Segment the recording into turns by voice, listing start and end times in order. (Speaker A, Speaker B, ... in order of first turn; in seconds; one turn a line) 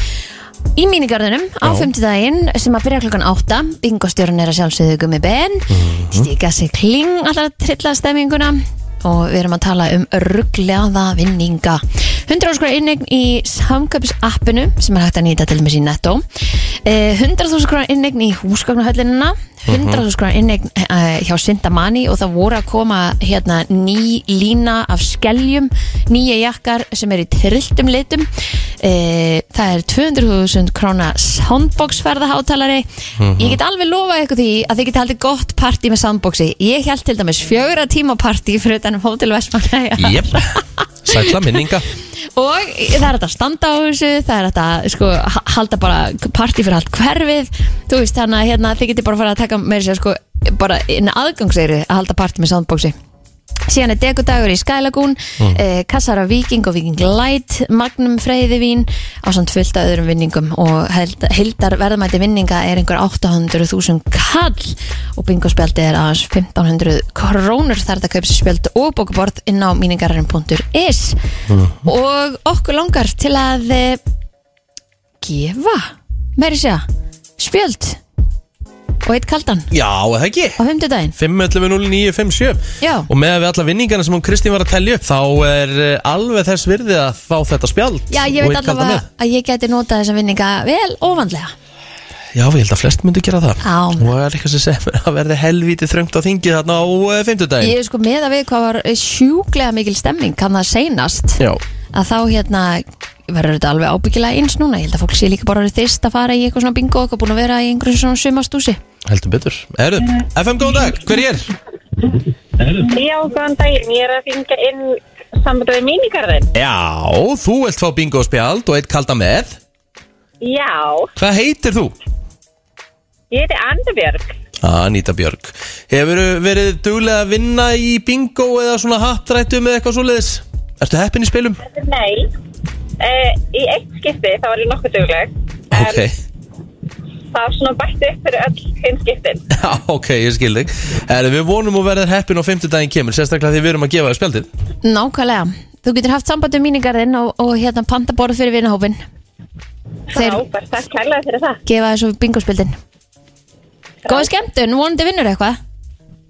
Speaker A: 0.8-40.6
Speaker B: 1.6-1.9
Speaker B: 5.7-6.3
Speaker B: 19.7-20.0
Speaker B: 33.2-33.6
Speaker B: 40.0-40.5
Speaker B: 41.0-41.9
Speaker A: 42.4-53.0
Speaker A: 53.7-71.2
Speaker B: 71.5-71.8
Speaker A: 71.8-74.0
Speaker A: 75.2-76.9
Speaker A: 77.4-78.0
Speaker A: 79.0-79.7
Speaker B: 79.7-80.6
Speaker A: 80.6-81.2
Speaker B: 81.2-89.1
Speaker A: 82.8-83.1
Speaker A: 88.1-91.5
Speaker B: 92.3-97.8
Speaker A: 93.6-94.1
Speaker A: 97.6-101.4
Speaker A: 101.9-108.8
Speaker B: 109.0-111.5
Speaker C: 112.7-116.5
Speaker B: 116.5-119.6
Speaker C: 120.4-121.1
Speaker B: 121.2-122.0
Speaker C: 123.3-124.3
Speaker B: 124.6-131.6
Speaker C: 131.6-132.3
Speaker C: 133.0-136.0
Speaker B: 135.7-136.1
Speaker C: 137.3-139.4
Speaker B: 139.5-144.5
Speaker A: 144.8-149.0
Speaker C: 150.1-151.6
Speaker A: 150.1-150.4
Speaker A: 151.7-152.8
Speaker A: 154.1-155.6